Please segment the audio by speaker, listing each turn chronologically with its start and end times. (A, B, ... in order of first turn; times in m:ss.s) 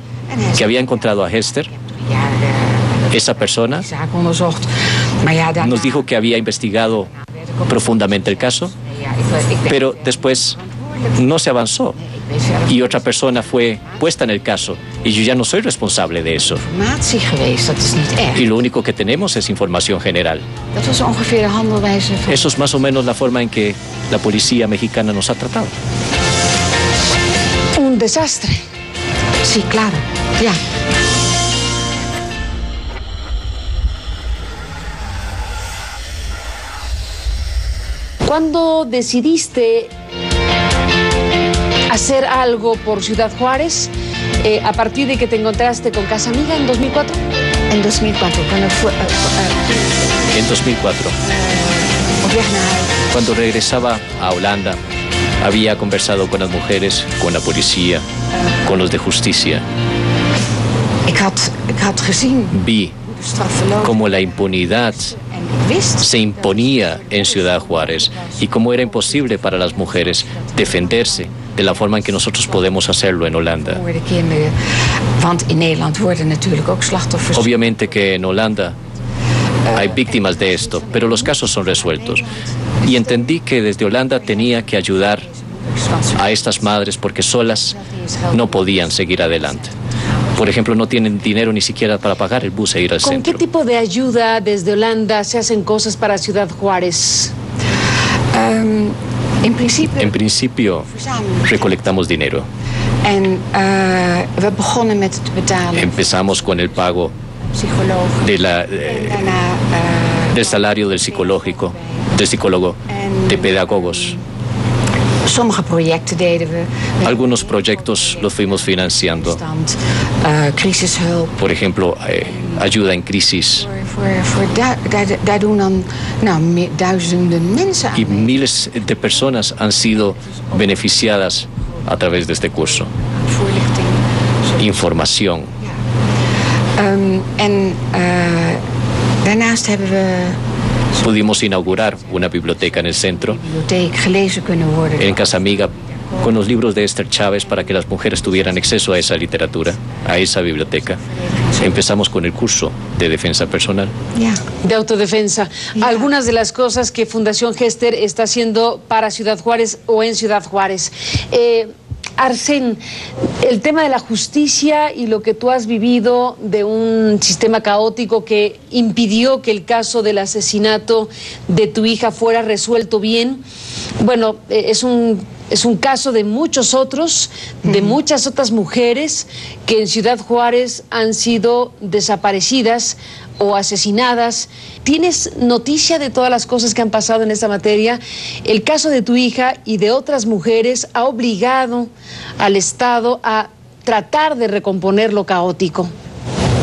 0:00.3-0:11.4 A
0:00.6-0:01.7 B
0:03.1-0:03.9 B
0:05.6-0:07.1 B
0:07.7-0:08.7 B
0:09.7-0:10.6 B
0:11.2-0:12.0 B
0:12.0-0:14.8 A
0:12.7-0:16.6 B
0:16.5-0:18.5 A
0:18.4-0:20.4 B
0:20.7-0:22.8 A
0:22.3-0:25.7 B
0:27.8-0:28.6 C
0:29.4-0:30.6 A
0:38.2-0:39.9 C
0:41.9-0:47.2 C
0:47.7-0:50.4 A
0:50.3-0:51.2 B
0:51.2-0:56.8 A
0:53.1-0:54.8 B
0:55.4-0:58.0 B
0:58.3-0:59.0 A
0:58.6-0:59.6 B
1:01.1-1:12.9 A
1:02.5-1:02.9 B
1:03.8-1:05.1 B
1:06.0-1:13.8 B
1:13.5-1:14.6 A
1:15.2-1:19.0 A
1:17.4-1:18.8 B
1:19.6-1:23.4 A
1:19.7-1:22.2 B
1:22.8-1:25.3 B
1:24.0-1:26.9 A
1:26.2-1:27.8 B
1:27.5-1:31.5 A
1:28.3-1:29.7 B
1:30.4-1:33.4 B
1:33.0-1:37.3 C
1:38.3-1:40.2 A
1:40.0-1:40.9 B
1:40.8-1:41.9 A
1:41.5-1:42.5 B
1:43.0-1:52.2 A
1:45.8-1:47.1 B
1:48.2-1:49.3 B
1:50.3-1:54.2 B
1:52.9-1:54.2 A
1:55.2-2:01.5 A
1:57.0-1:59.4 B
2:01.4-2:03.7 B
2:02.2-2:02.7 A
2:03.6-2:10.9 A
2:08.0-2:12.9 B
2:11.5-2:14.8 A
2:14.6-2:15.5 B
2:16.8-2:18.6 A
2:19.2-2:26.6 A
2:21.0-2:23.4 B
2:25.0-2:31.0 B
2:27.4-2:32.0 A
2:31.6-2:33.9 B
2:34.1-2:34.4 A
2:34.6-2:42.8 C
2:35.8-2:36.1 A
2:43.4-2:53.4 C
2:54.0-3:15.9 C
2:57.7-2:58.0 A